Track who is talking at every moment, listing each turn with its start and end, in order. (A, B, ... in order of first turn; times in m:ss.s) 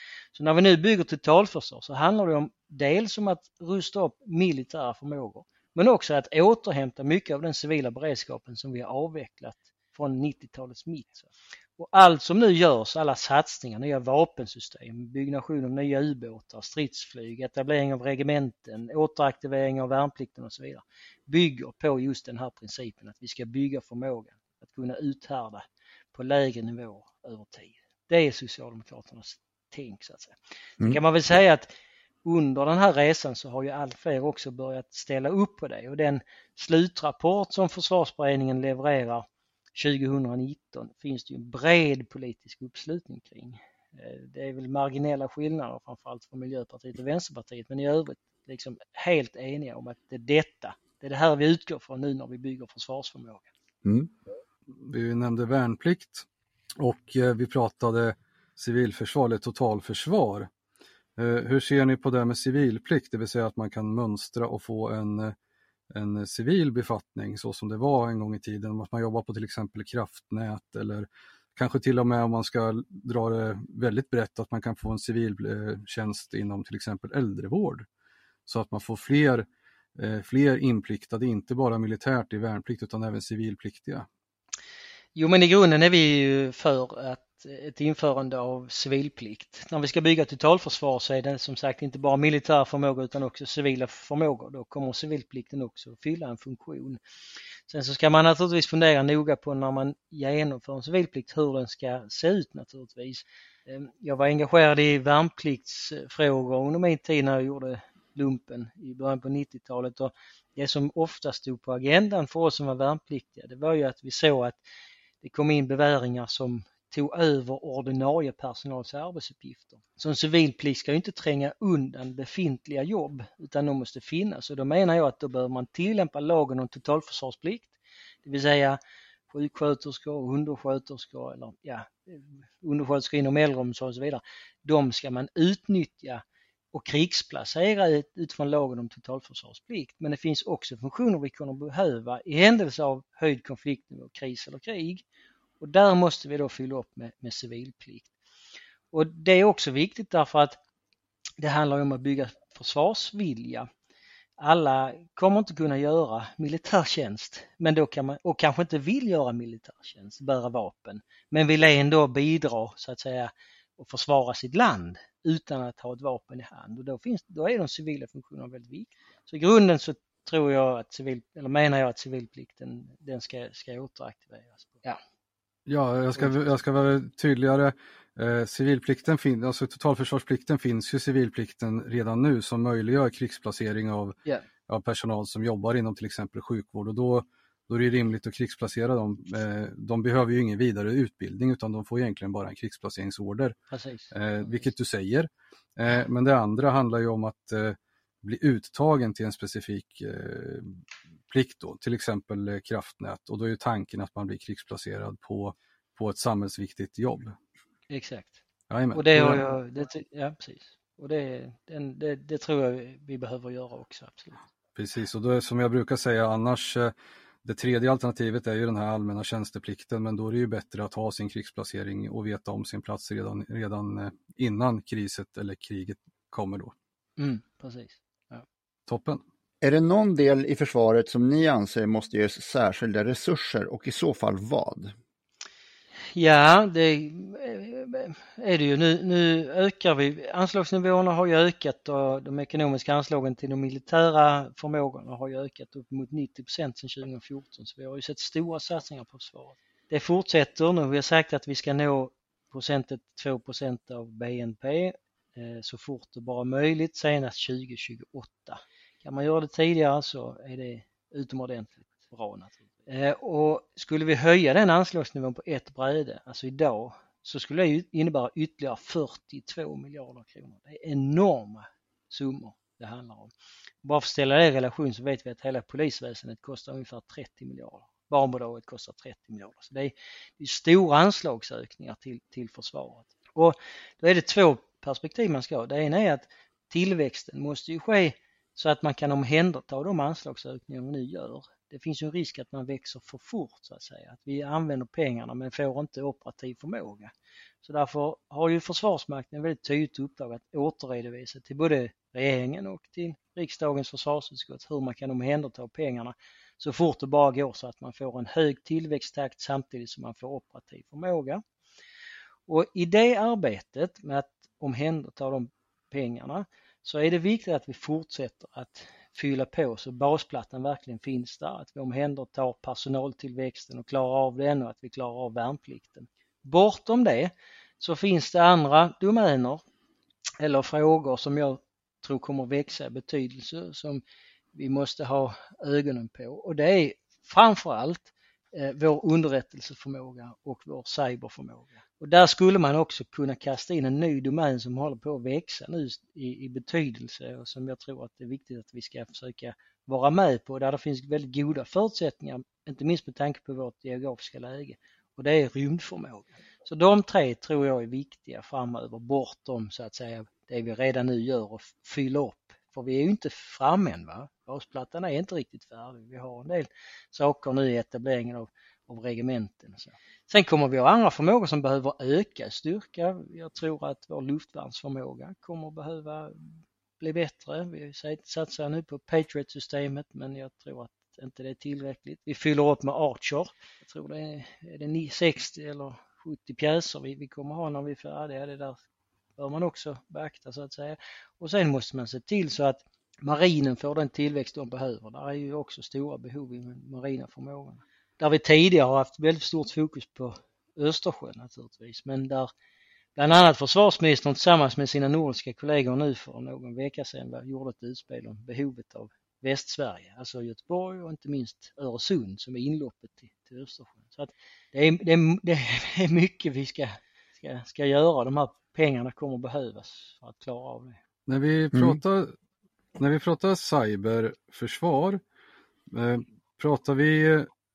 0:00.4-0:31.7 A
0:32.2-0:53.5 A
0:53.8-0:54.1 B
0:54.8-0:56.3 C
0:56.8-1:00.5 C
1:01.2-1:05.3 C
1:05.9-1:17.9 C
1:18.5-1:24.1 C
1:25.2-1:37.0 A
1:37.7-1:54.6 A
1:55.2-2:08.8 A
2:09.3-2:25.0 A
2:25.6-2:28.1 A
2:28.9-2:30.6 A
2:31.4-2:33.7 A
2:34.4-2:55.0 A
2:55.7-3:04.2 C
2:56.2-2:56.4 A
3:04.7-3:13.6 C
3:13.7-3:14.7 A
3:14.1-3:27.4 C
3:27.9-3:28.4 A
3:28.7-3:29.4 C
3:28.9-3:34.4 A
3:34.8-3:36.9 C
3:37.4-3:46.7 C
3:47.2-3:48.4 A
3:48.9-3:49.2 C
3:49.6-3:55.0 B
3:56.1-4:33.3 A
4:33.8-4:57.1 A
4:57.6-5:11.4 A
5:12.5-5:29.6 A
5:30.4-5:34.0 A
5:34.5-6:28.8 A
6:29.4-6:42.5 A
6:43.2-7:01.0 A
7:01.3-7:02.3 C
7:01.7-7:02.0 B
7:03.0-7:05.2 C
7:05.9-7:07.5 C